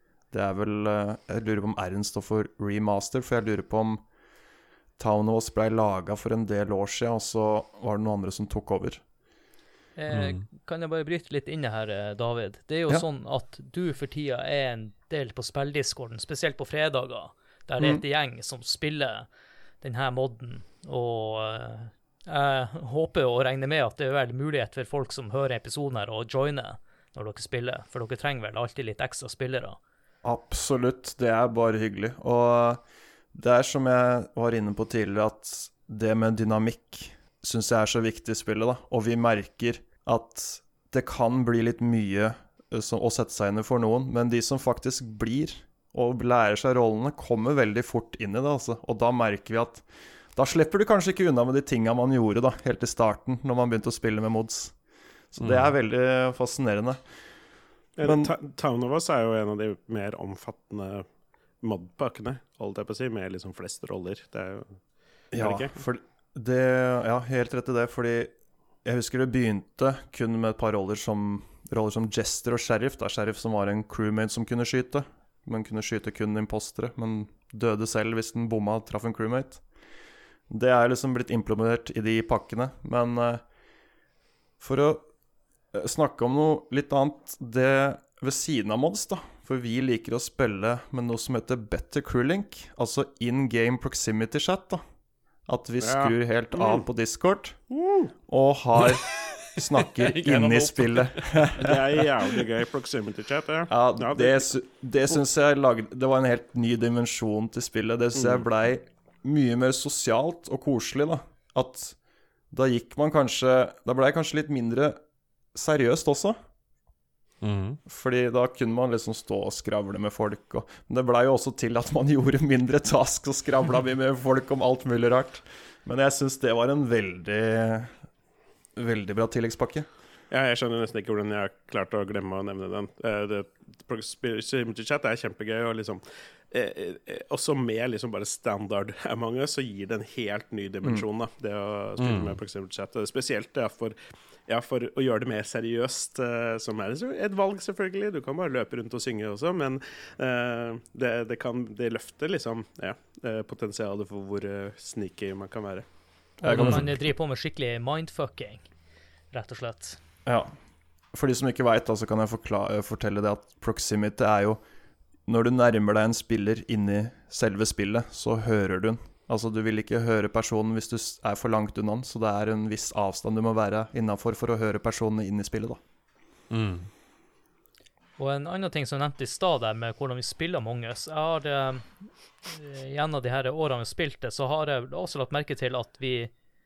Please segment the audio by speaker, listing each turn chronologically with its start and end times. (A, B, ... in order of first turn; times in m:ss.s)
0:00.3-0:04.0 A
0:05.0-0:09.0 A
0:10.0-0:19.3 B
0:10.1-0:10.4 C
0:19.8-0:29.8 B
0:30.2-0:32.8 A
0:33.3-0:54.7 A
0:55.3-0:57.0 A
0:55.4-0:55.7 C
0:58.0-1:01.0 D
0:58.0-0:58.3 A
1:01.6-1:04.8 D
1:05.3-1:08.3 A
1:05.3-1:05.8 D
1:08.8-1:19.6 A
1:20.5-1:23.4 A
1:24.6-1:25.0 A
1:25.7-1:34.8 A
1:35.5-1:37.6 A
1:35.8-1:36.8 D
1:37.7-1:38.1 D
1:38.3-1:42.0 A
1:38.8-1:41.5 C
1:41.6-1:44.5 D
1:43.7-1:52.0 A
1:48.1-1:48.4 D
1:52.5-1:55.0 A
1:55.5-1:56.4 A
1:57.4-1:57.8 C
1:57.8-2:08.0 A
2:08.8-2:09.9 A
2:10.3-2:35.8 D
2:22.0-2:22.4 C
2:36.4-2:38.6 B
2:36.4-2:37.0 A
2:36.6-2:36.8 C
2:39.3-2:40.0 B
2:40.2-2:40.5 A
2:41.1-2:44.6 A
2:45.3-2:55.8 A
2:56.5-2:56.9 C
2:58.2-3:01.9 B
3:02.4-3:06.3 B